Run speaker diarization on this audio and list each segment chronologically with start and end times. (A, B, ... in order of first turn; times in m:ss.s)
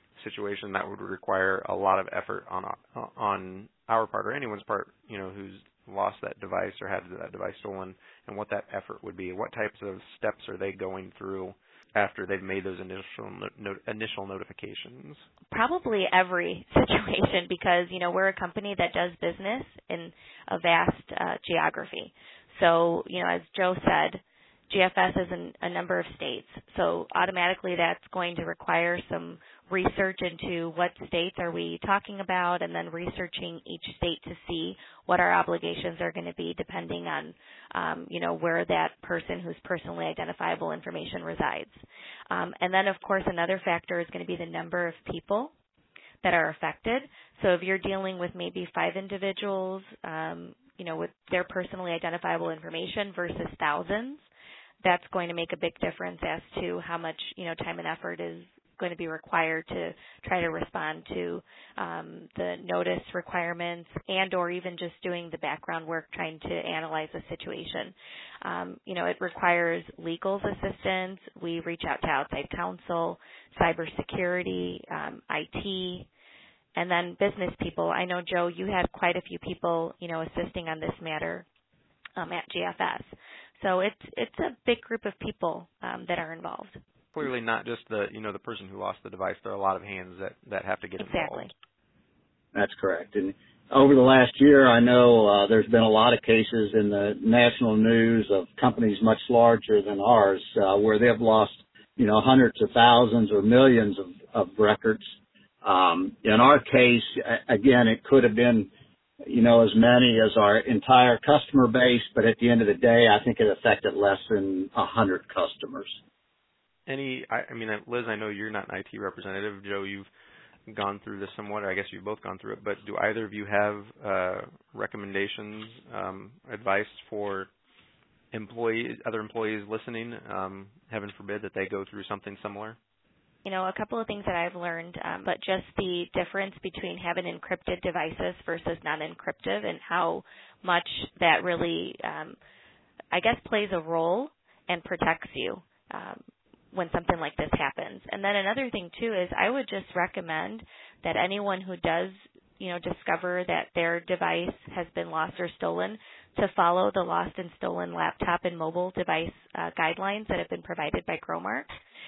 0:00.2-0:15.2 A
0:15.5-0:45.5 B
0:46.2-0:54.2 B
0:54.8-1:16.1 B
1:16.8-1:21.5 B
1:22.2-1:26.8 B
1:27.2-1:31.5 A
1:31.0-1:31.5 B
1:32.5-1:45.0 C
1:45.6-1:48.7 C
1:49.2-1:55.9 C
1:56.9-2:00.1 A
2:00.7-2:07.5 A
2:08.3-2:12.8 A
2:13.4-2:22.4 B
2:23.1-2:26.2 B
2:26.7-2:41.7 B